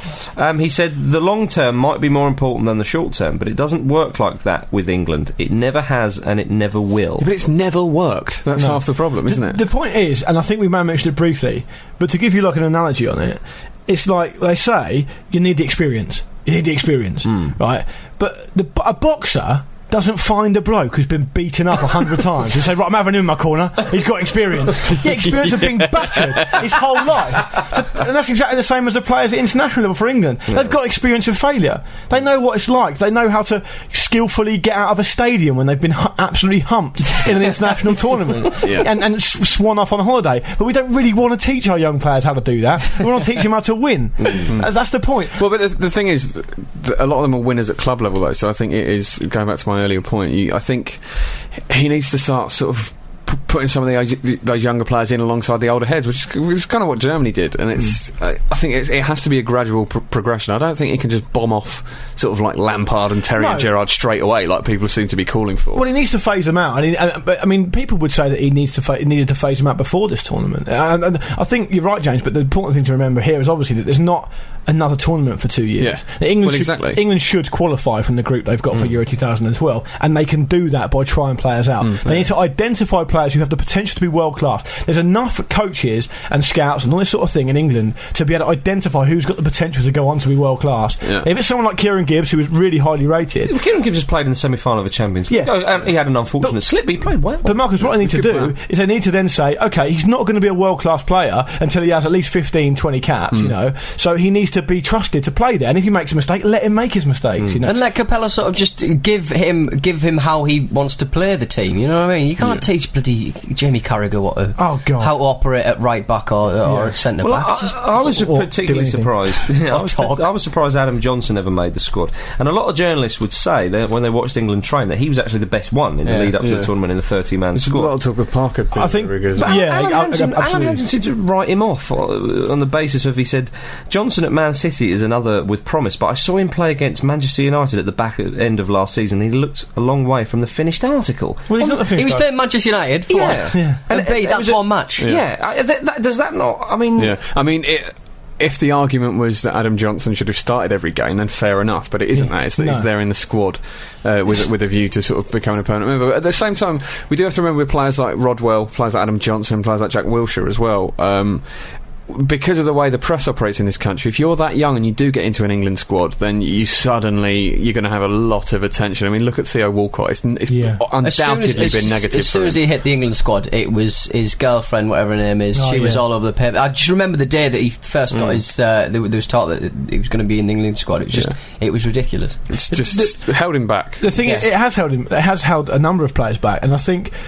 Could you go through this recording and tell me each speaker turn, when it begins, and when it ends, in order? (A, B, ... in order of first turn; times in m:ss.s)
0:00.4-0:07.3 A
0:07.2-0:09.6 B
0:08.6-0:45.4 C
0:25.2-0:26.6 B
0:38.6-0:38.9 B
0:45.3-1:05.8 B
1:03.4-1:03.7 C
1:05.7-1:33.5 C
1:15.8-1:17.0 B
1:21.8-1:22.2 B
1:31.0-1:31.3 B
1:33.5-1:37.7 A
1:35.3-1:35.5 C
1:37.4-1:47.8 C
1:37.8-1:38.5 B
1:47.6-1:58.1 D
1:54.6-1:55.2 C
1:56.6-1:57.0 C
1:57.2-2:08.0 A
1:58.0-1:59.3 C
1:59.6-2:00.2 D
2:06.0-2:06.3 D
2:06.4-2:06.7 B
2:07.5-2:09.6 B
2:08.7-2:10.8 C
2:09.4-2:22.0 A
2:21.5-2:22.2 C
2:21.6-2:25.0 D
2:23.1-2:27.2 A
2:23.5-2:23.8 C
2:27.0-2:52.6 B
2:32.1-2:32.9 C
2:50.5-2:50.8 C
2:51.0-3:02.4 D
2:55.5-2:56.0 C
3:02.5-3:04.1 B
3:02.7-3:03.2 C
3:04.0-3:07.1 C
3:04.2-3:04.5 D